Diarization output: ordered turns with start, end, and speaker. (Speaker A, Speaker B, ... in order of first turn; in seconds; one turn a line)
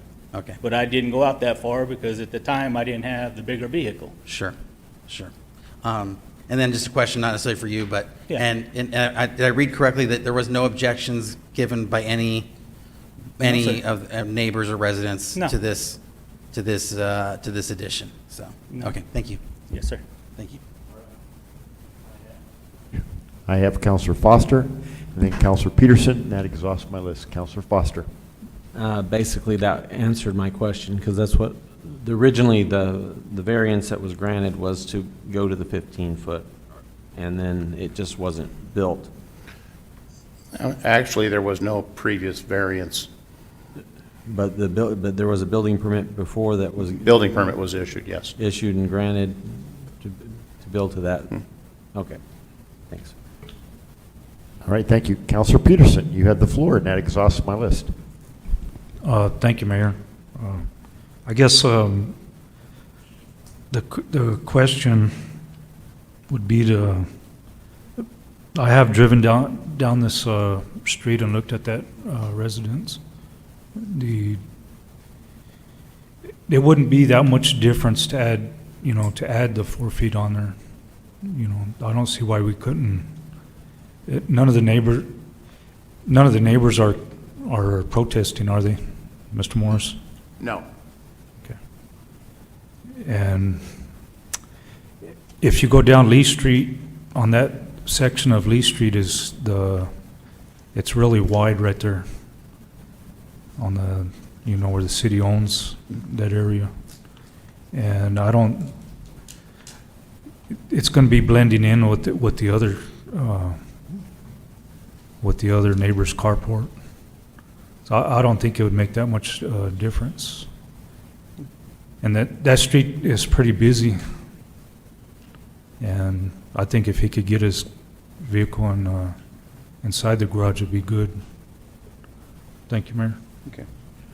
Speaker A: 0.3-0.6
Speaker B: 0.6-4.2
Speaker A: 4.3-4.6
Speaker A: 5.8-12.5
Speaker A: 13.4-16.0
Speaker B: 13.4-13.8
Speaker A: 16.5-19.4
Speaker B: 19.7-20.0
Speaker C: 23.5-28.1
Speaker D: 28.7-36.5
Speaker D: 37.1-39.1
Speaker E: 40.5-43.1
Speaker D: 44.3-47.3
Speaker E: 46.9-48.3
Speaker D: 48.4-51.4
Speaker D: 51.9-52.2
Speaker D: 52.9-53.1
Speaker C: 54.6-57.9
Speaker F: 59.0-60.7
Speaker F: 61.2-62.2
Speaker F: 63.7-65.1
Speaker F: 66.3-67.1
Speaker F: 68.5-73.0
Speaker F: 73.8-74.4
Speaker F: 76.5-80.6
Speaker F: 81.2-83.1
Speaker F: 84.1-85.1
Speaker F: 86.0-88.8
Speaker F: 89.3-90.0
Speaker E: 90.4-90.7
Speaker F: 93.0-93.8
Speaker F: 95.4-99.9
Speaker F: 100.7-102.0
Speaker F: 103.6-106.7
Speaker F: 107.7-108.7
Speaker F: 110.7-113.6
Speaker F: 115.2-116.7
Speaker F: 117.9-120.5
Speaker F: 122.0-124.0
Speaker F: 125.8-127.7
Speaker F: 128.2-129.2
Speaker F: 129.8-131.2
Speaker F: 132.7-133.2